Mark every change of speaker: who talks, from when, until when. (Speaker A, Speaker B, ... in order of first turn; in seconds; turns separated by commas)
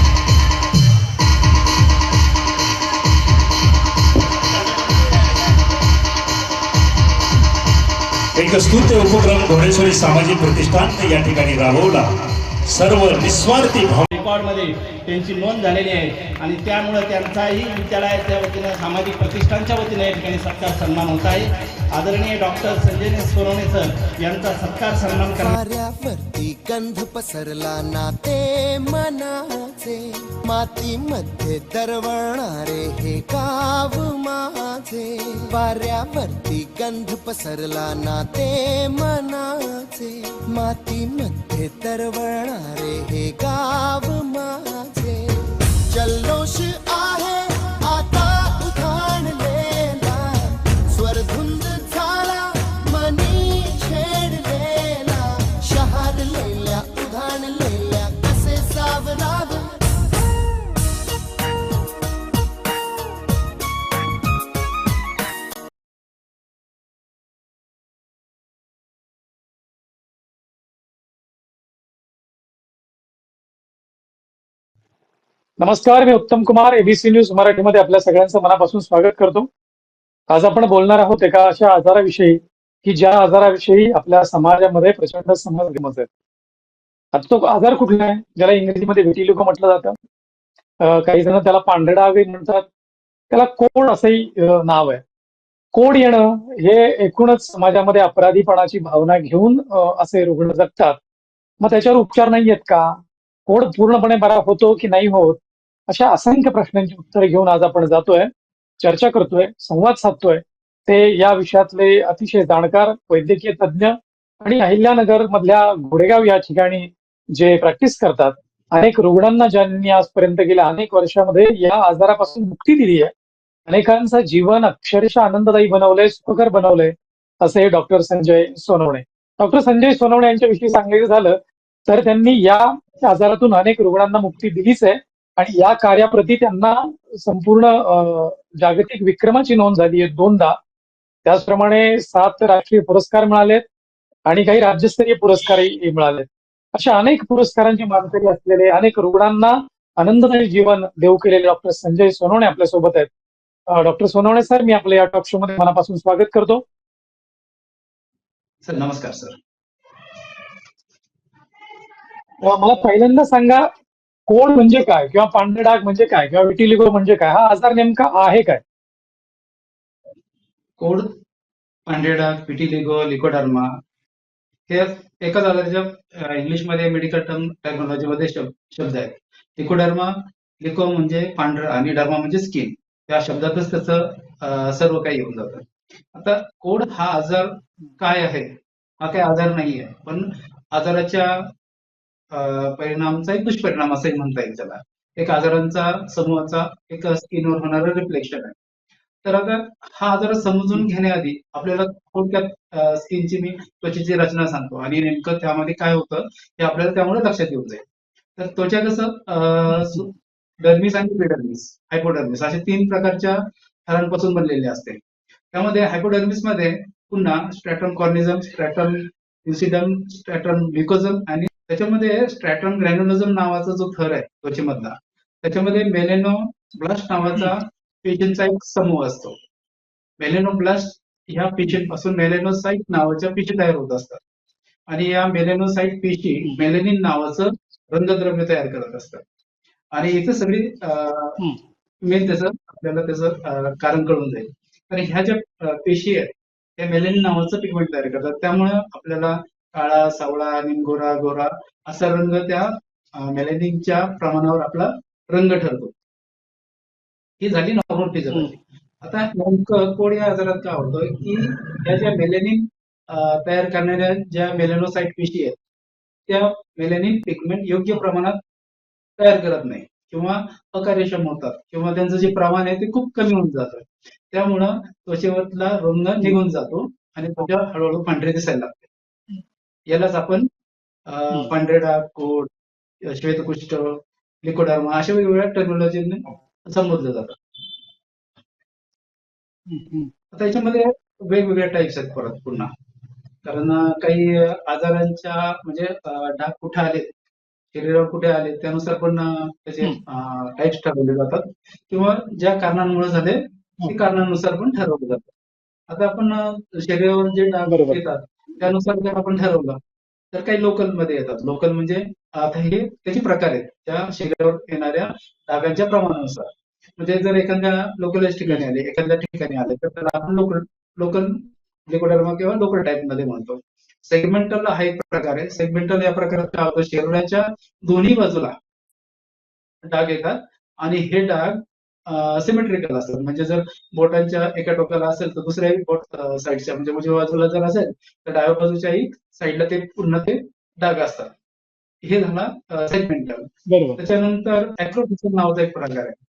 Speaker A: 8.3-12.1, Speaker A: 12.7-14.1, Speaker B: 14.1-25.6, Speaker C: 25.3-59.8, Speaker D: 75.6-79.5, Speaker D: 80.3-86.1, Speaker D: 87.1-90.0, Speaker D: 90.8-92.7, Speaker D: 93.3-95.0, Speaker D: 95.7-101.0, Speaker D: 101.6-108.3, Speaker D: 108.8-123.1, Speaker D: 123.7-140.6, Speaker D: 141.3-143.6, Speaker D: 144.3-153.1, Speaker D: 153.7-156.6, Speaker E: 158.6-159.4, Speaker D: 162.4-163.7, Speaker D: 164.3-168.6, Speaker E: 170.8-171.1, Speaker E: 171.9-173.7, Speaker E: 174.7-191.5, Speaker E: 192.3-198.6, Speaker E: 199.2-207.8, Speaker E: 208.4-215.0, Speaker D: 209.7-210.0, Speaker E: 215.5-229.4, Speaker E: 230.2-234.2, Speaker E: 234.9-239.2, Speaker E: 239.9-241.4, Speaker E: 242.0-255.9, Speaker E: 257.4-265.6, Speaker E: 266.3-268.4, Speaker E: 269.2-278.9, Speaker E: 279.9-280.5, Speaker E: 281.1-282.5, Speaker E: 283.0-287.4, Speaker D: 289.7-290.1, Speaker E: 290.3-292.7, Speaker E: 293.4-297.1, Speaker E: 297.7-305.3, Speaker E: 305.9-309.8, Speaker D: 307.7-308.0, Speaker E: 310.3-328.6, Speaker E: 329.8-341.3, Speaker E: 342.0-346.2, Speaker D: 343.7-344.0